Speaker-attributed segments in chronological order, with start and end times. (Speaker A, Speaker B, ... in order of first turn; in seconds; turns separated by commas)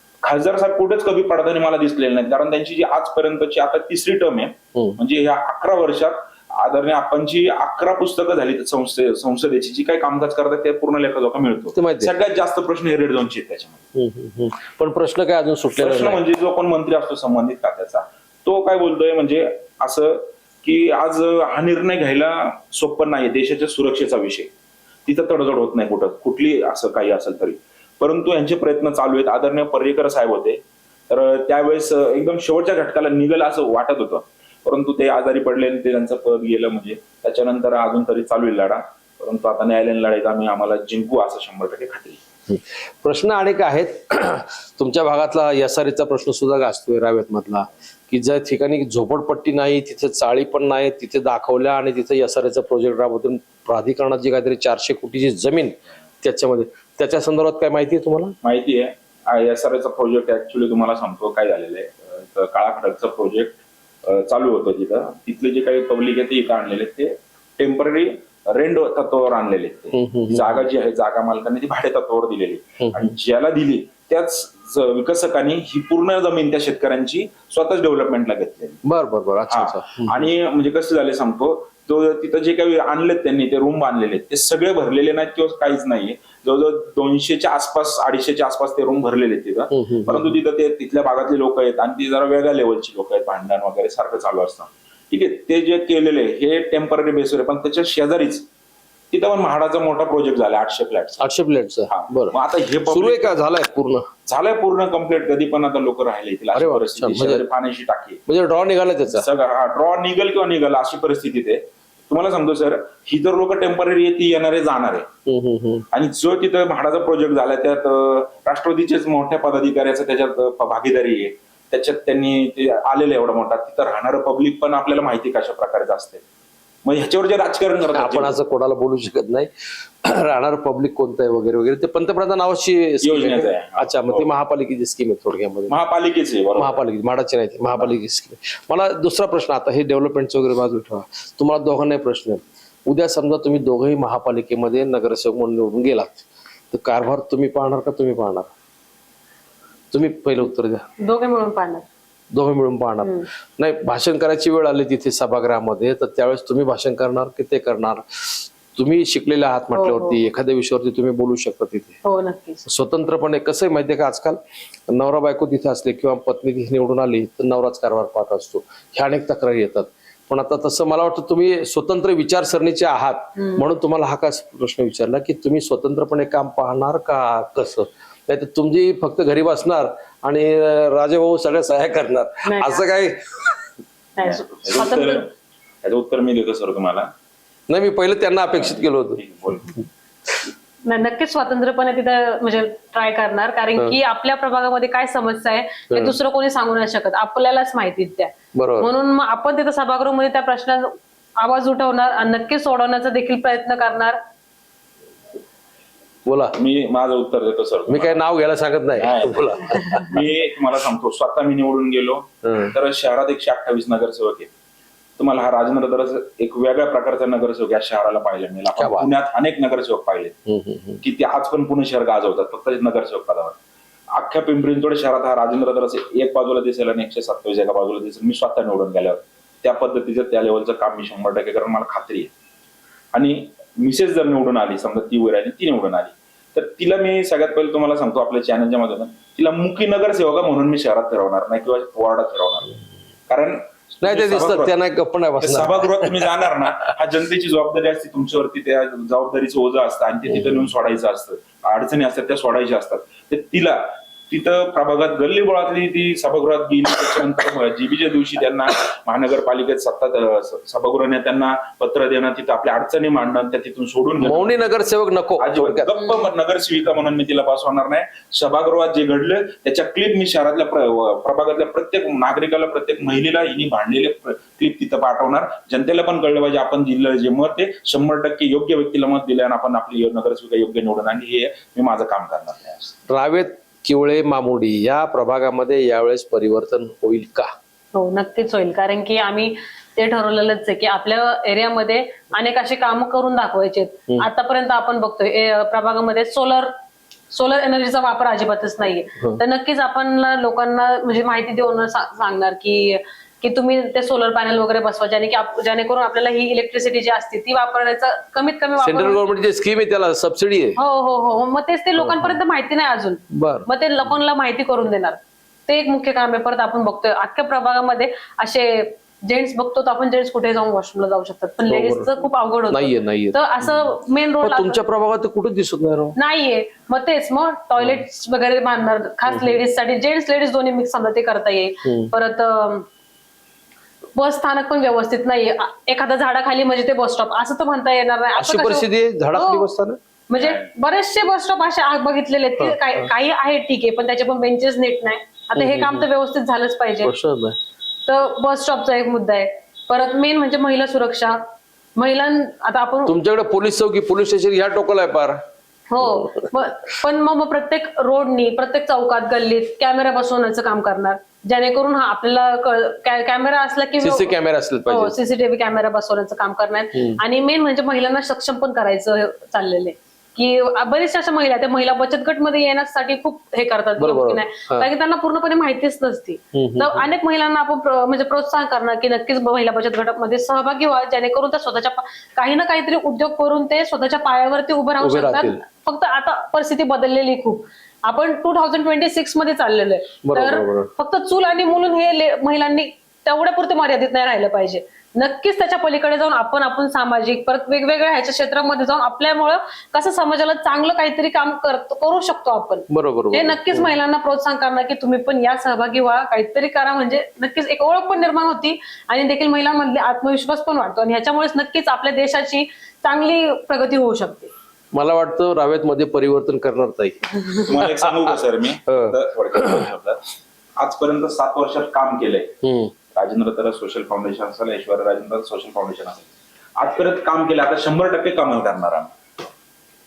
Speaker A: 0.2-13.8, Speaker B: 11.7-12.1, Speaker B: 13.9-16.2, Speaker A: 15.8-24.5, Speaker A: 25.1-42.2, Speaker B: 42.5-58.3, Speaker A: 58.4-78.8, Speaker B: 69.9-70.7, Speaker B: 72.8-73.1, Speaker B: 78.8-80.3, Speaker A: 79.5-98.5, Speaker B: 89.7-90.4, Speaker A: 99.1-101.3, Speaker B: 101.2-102.3, Speaker A: 101.9-103.4, Speaker B: 102.9-104.1, Speaker A: 104.3-108.2, Speaker B: 106.5-107.4, Speaker B: 108.3-109.3, Speaker A: 109.1-115.1, Speaker B: 115.2-115.8, Speaker A: 115.9-126.2, Speaker A: 126.8-128.4, Speaker B: 127.9-135.8, Speaker A: 133.0-134.3, Speaker A: 135.7-136.8, Speaker B: 136.6-148.5, Speaker B: 149.9-150.9, Speaker C: 151.0-151.8, Speaker B: 152.3-162.0, Speaker C: 153.0-153.3, Speaker C: 159.7-160.2, Speaker C: 162.0-162.7, Speaker B: 162.7-183.6, Speaker C: 173.4-173.7, Speaker C: 182.4-182.8, Speaker C: 184.2-185.2, Speaker A: 184.2-185.3, Speaker A: 185.8-187.1, Speaker B: 187.7-189.2, Speaker A: 188.5-189.7, Speaker C: 190.8-204.2, Speaker B: 195.9-196.2, Speaker B: 198.5-198.9, Speaker B: 206.2-206.6, Speaker A: 206.5-208.2, Speaker B: 207.9-210.2, Speaker A: 208.9-214.5, Speaker B: 212.4-212.8, Speaker A: 215.2-220.4, Speaker B: 218.7-219.1, Speaker B: 220.4-221.0, Speaker A: 221.0-223.6, Speaker A: 224.1-232.3, Speaker A: 233.1-242.8, Speaker A: 243.3-244.8, Speaker B: 244.0-246.2, Speaker A: 245.4-264.8, Speaker B: 264.2-265.9, Speaker A: 265.4-282.9, Speaker B: 283.1-287.5, Speaker C: 287.9-296.7, Speaker C: 297.3-309.2, Speaker B: 308.8-310.8, Speaker C: 310.8-324.8, Speaker B: 312.0-312.4, Speaker B: 313.3-313.6, Speaker B: 321.7-326.2, Speaker C: 326.2-332.9, Speaker B: 327.8-328.0, Speaker B: 329.3-329.6, Speaker B: 331.8-332.1, Speaker C: 334.1-339.7, Speaker B: 338.4-340.0, Speaker C: 340.3-347.1, Speaker A: 340.3-340.7, Speaker B: 342.6-343.1, Speaker B: 345.6-346.1, Speaker B: 347.0-347.6, Speaker C: 348.1-351.4, Speaker C: 351.9-353.1, Speaker B: 353.0-355.4, Speaker C: 355.9-364.4, Speaker B: 356.0-356.5, Speaker B: 364.0-365.1, Speaker C: 364.9-414.5, Speaker B: 366.9-367.2, Speaker B: 374.0-374.9, Speaker B: 376.5-377.1, Speaker B: 385.0-385.6, Speaker B: 390.2-390.9, Speaker B: 402.9-403.9, Speaker B: 414.9-419.9, Speaker A: 417.6-420.2, Speaker A: 420.8-422.5, Speaker B: 422.6-422.9, Speaker A: 423.1-429.1